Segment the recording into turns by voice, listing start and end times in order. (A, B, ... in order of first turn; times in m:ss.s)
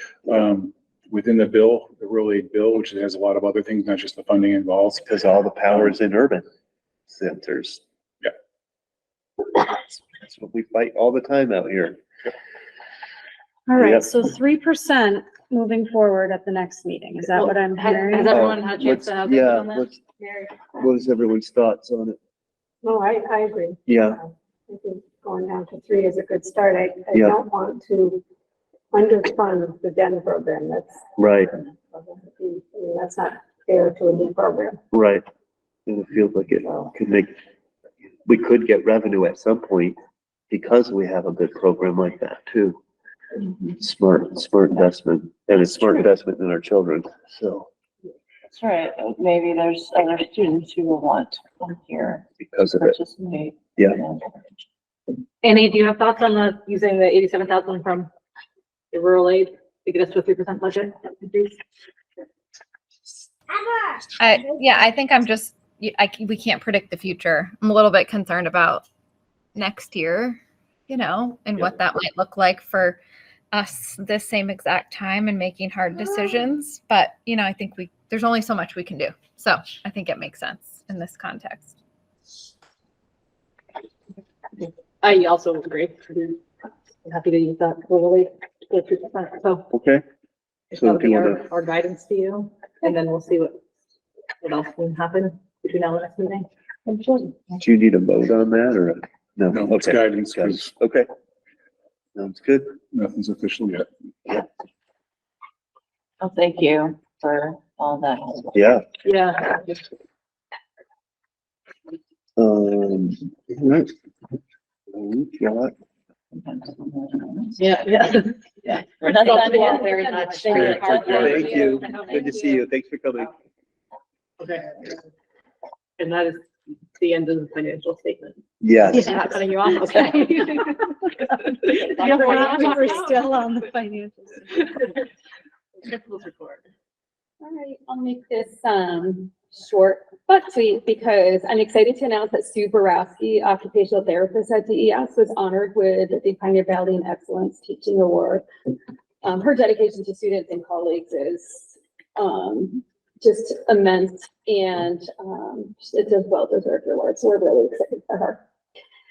0:00.2-0:05.1 A
0:05.1-0:06.4 B
0:07.1-0:07.8 B
0:09.6-0:12.0 B
0:13.7-0:18.5 C
0:13.8-0:14.1 B
0:17.4-0:20.5 D
0:18.3-0:20.0 B
0:20.7-0:22.2 B
0:22.8-0:23.8 E
0:23.9-0:24.2 B
0:24.7-0:28.2 E
0:28.9-0:31.0 E
0:31.2-0:31.5 B
0:31.9-0:34.8 E
0:34.9-0:35.2 B
0:35.9-0:37.3 B
0:38.3-0:40.0 B
0:40.5-0:42.8 B
0:43.8-0:47.7 B
0:48.5-0:54.5 F
0:52.4-0:53.0 B
0:55.4-0:58.1 D
0:58.9-1:01.6 D
1:04.2-1:08.8 G
1:09.6-1:13.0 G
1:13.5-1:21.7 G
1:24.6-1:26.4 D
1:27.0-1:29.7 D
1:29.7-1:30.0 B
1:30.7-1:33.6 D
1:30.8-1:31.5 B
1:34.4-1:37.6 D
1:37.6-1:41.1 B
1:39.5-1:40.7 A
1:42.2-1:42.7 B
1:42.9-1:43.9 A
1:46.2-1:48.6 F
1:48.5-1:48.8 B
1:49.0-1:49.8 D
1:52.4-1:53.9 B
1:54.9-1:55.7 B
1:56.3-1:58.0 F
1:57.6-1:58.4 D
1:58.6-2:01.3 F
1:59.1-2:02.4 D
2:00.5-2:01.5 A
2:00.6-2:03.3 B
2:04.4-2:05.0 D
2:06.0-2:10.9 D
2:08.6-2:09.2 B
2:11.4-2:13.5 D
2:12.0-2:14.7 C
2:15.8-2:16.7 D
2:17.4-2:28.5 H
2:29.2-2:38.4 H